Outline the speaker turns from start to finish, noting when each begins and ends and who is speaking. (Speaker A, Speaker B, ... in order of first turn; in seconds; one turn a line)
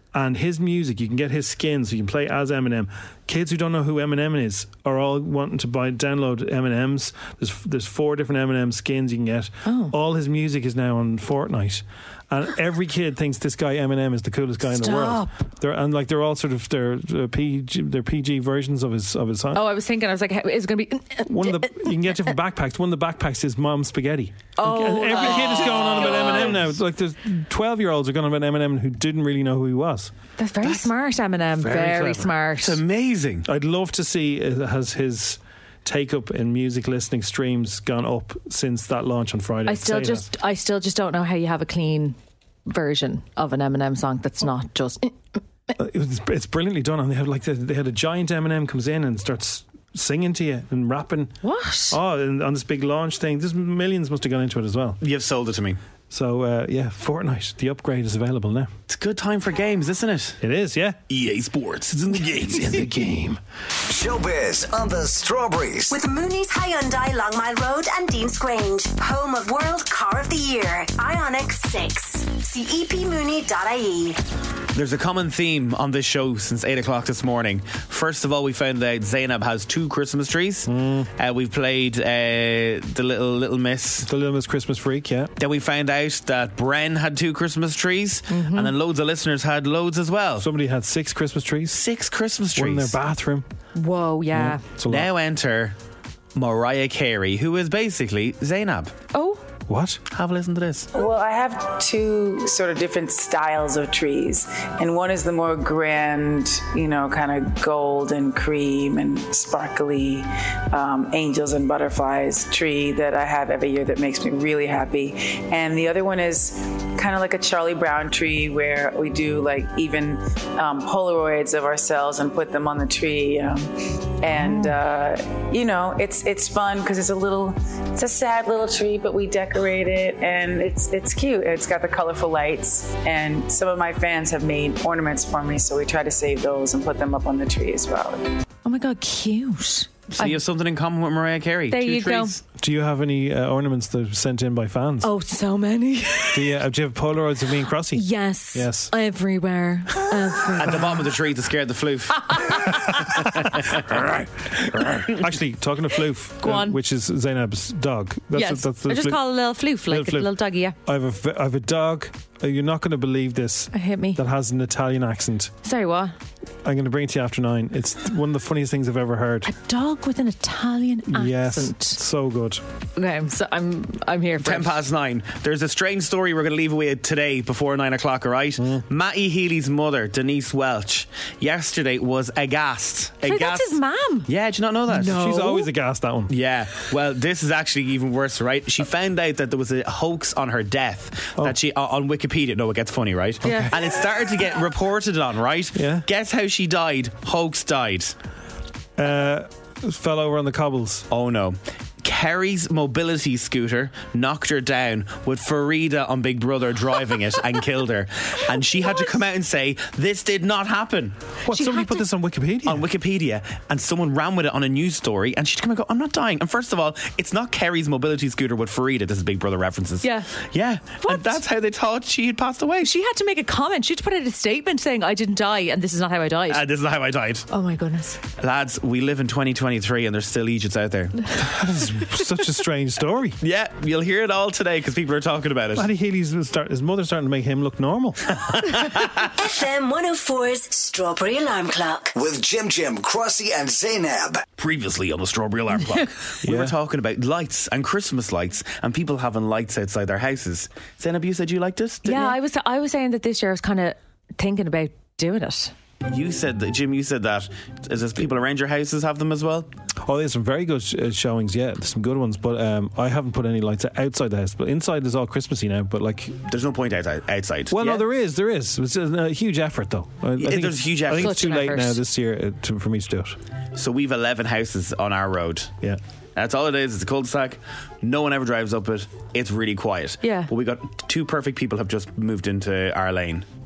Speaker A: 0.1-19.6
Speaker B: 9.7-9.9
Speaker B: 14.7-15.4
Speaker B: 19.5-21.9
Speaker A: 21.3-30.1
Speaker B: 24.6-26.6
Speaker C: 25.4-26.3
Speaker B: 30.4-32.8
Speaker A: 31.6-32.2
Speaker C: 31.7-33.5
Speaker A: 33.5-40.3
Speaker B: 39.7-45.2
Speaker A: 45.8-51.3
Speaker B: 51.4-52.0
Speaker A: 51.9-55.0
Speaker C: 55.0-55.8
Speaker A: 56.1-58.7
Speaker C: 58.9-60.4
Speaker A: 60.4-61.0
Speaker C: 61.1-62.9
Speaker A: 62.0-63.4
Speaker D: 63.9-66.0
Speaker E: 65.9-74.2
Speaker C: 74.7-84.1
Speaker A: 80.7-81.1
Speaker A: 84.1-85.3
Speaker C: 85.4-90.5
Speaker B: 88.3-88.7
Speaker A: 90.4-91.8
Speaker C: 91.7-93.0
Speaker A: 92.6-93.5
Speaker B: 93.8-94.6
Speaker A: 94.3-95.1
Speaker C: 94.9-95.8
Speaker C: 96.3-98.9
Speaker B: 99.1-99.4
Speaker A: 99.7-100.0
Speaker C: 100.1-100.9
Speaker F: 100.9-138.3
Speaker B: 138.7-140.4
Speaker C: 140.1-142.4
Speaker B: 141.7-142.4
Speaker A: 142.6-145.1
Speaker B: 145.0-146.5
Speaker A: 146.3-148.9
Speaker B: 147.9-150.9
Speaker C: 150.6-152.6
Speaker B: 152.3-152.6
Speaker A: 152.7-159.2
Speaker B: 156.4-156.8
Speaker B: 158.3-160.8
Speaker A: 159.9-160.3
Speaker A: 160.9-165.5
Speaker B: 163.7-164.2
Speaker B: 165.6-166.1
Speaker A: 166.6-169.5
Speaker B: 169.4-172.0
Speaker A: 171.1-172.6
Speaker B: 173.0-174.7
Speaker C: 174.4-185.3
Speaker A: 178.6-178.8
Speaker B: 183.2-184.3
Speaker A: 184.9-186.3
Speaker B: 185.1-185.7
Speaker C: 186.3-198.2
Speaker A: 193.4-193.7
Speaker B: 193.4-193.7
Speaker A: 195.8-196.1
Speaker A: 199.0-201.1
Speaker C: 201.1-211.2
Speaker A: 211.5-212.9
Speaker B: 211.5-212.1
Speaker C: 212.7-222.9
Speaker B: 220.0-220.3
Speaker B: 221.0-221.4
Speaker B: 222.8-226.6
Speaker C: 226.5-227.5
Speaker B: 227.5-228.2
Speaker C: 228.4-231.3
Speaker A: 231.4-233.4
Speaker C: 233.4-235.9
Speaker A: 235.8-238.8
Speaker C: 238.7-239.3
Speaker E: 239.4-242.1
Speaker D: 242.2-244.4
Speaker C: 244.6-252.4
Speaker A: 246.4-246.8
Speaker B: 252.1-255.7
Speaker C: 256.0-259.7
Speaker A: 260.0-266.4
Speaker C: 266.5-268.1
Speaker A: 267.7-273.4
Speaker C: 270.4-271.4
Speaker B: 271.1-272.0
Speaker C: 273.8-275.7
Speaker C: 276.4-283.4
Speaker B: 280.2-280.5